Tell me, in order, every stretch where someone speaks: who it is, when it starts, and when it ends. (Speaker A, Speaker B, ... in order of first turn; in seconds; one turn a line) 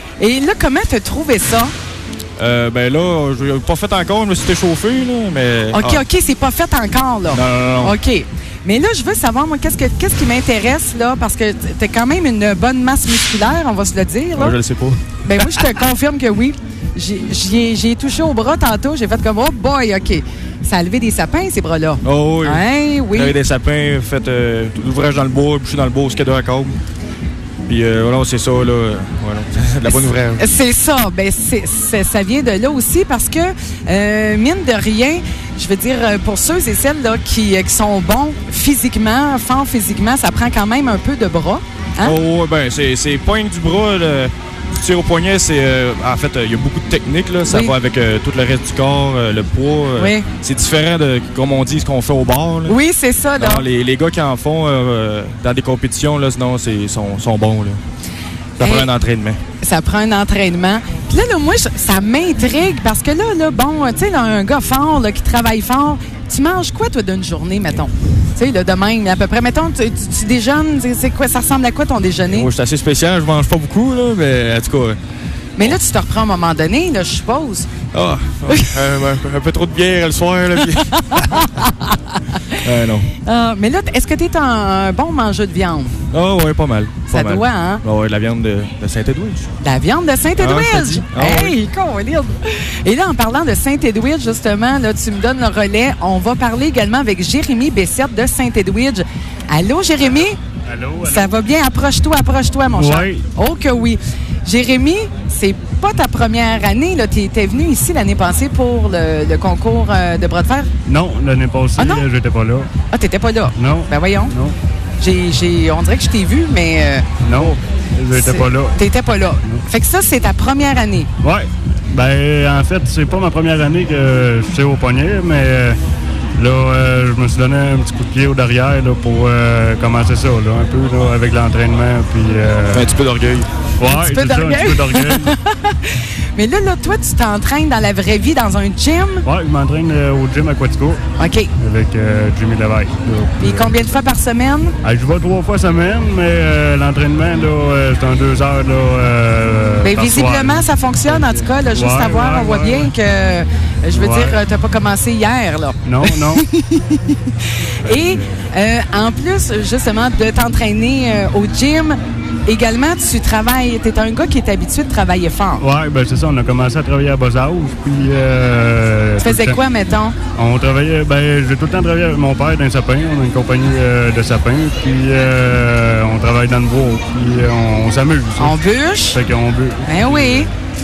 Speaker A: 0.2-1.7
Speaker B: 2.4-6.0
Speaker A: 5.7-14.6
Speaker B: 7.3-8.0
Speaker B: 14.4-15.7
Speaker A: 15.2-23.4
Speaker B: 22.0-26.8
Speaker B: 27.7-30.5
Speaker A: 29.9-42.2
Speaker B: 42.0-52.8
Speaker A: 47.5-47.8
Speaker A: 50.0-50.3
Speaker A: 52.7-53.7
Speaker B: 53.4-57.8
Speaker B: 58.6-59.4
Speaker A: 58.6-58.9
Speaker A: 59.6-72.5
Speaker B: 72.3-75.0
Speaker A: 75.6-77.7
Speaker B: 77.9-81.5
Speaker A: 78.5-78.8
Speaker A: 81.1-82.6
Speaker B: 82.6-83.1
Speaker A: 83.2-85.9
Speaker B: 86.1-89.5
Speaker A: 87.1-87.8
Speaker A: 89.6-100.4
Speaker B: 90.4-91.6
Speaker C: 100.7-101.4
Speaker A: 101.0-110.7
Speaker C: 102.7-103.2
Speaker C: 110.8-112.7
Speaker A: 111.8-112.1
Speaker A: 112.9-114.3
Speaker C: 113.6-114.6
Speaker A: 115.0-117.6
Speaker C: 117.2-118.8
Speaker A: 118.1-121.1
Speaker C: 121.2-125.8
Speaker C: 126.3-132.9
Speaker B: 132.7-133.5
Speaker C: 133.8-135.3
Speaker A: 133.9-139.2
Speaker C: 139.2-141.0
Speaker A: 141.2-141.5
Speaker C: 141.6-143.8
Speaker A: 143.4-144.8
Speaker C: 144.8-152.9
Speaker A: 149.8-165.7
Speaker C: 153.9-154.4
Speaker C: 155.8-156.4
Speaker C: 157.8-158.4
Speaker C: 165.6-169.6
Speaker A: 169.2-170.2
Speaker C: 170.4-178.6
Speaker A: 178.4-179.2
Speaker C: 179.1-180.5
Speaker A: 179.8-180.5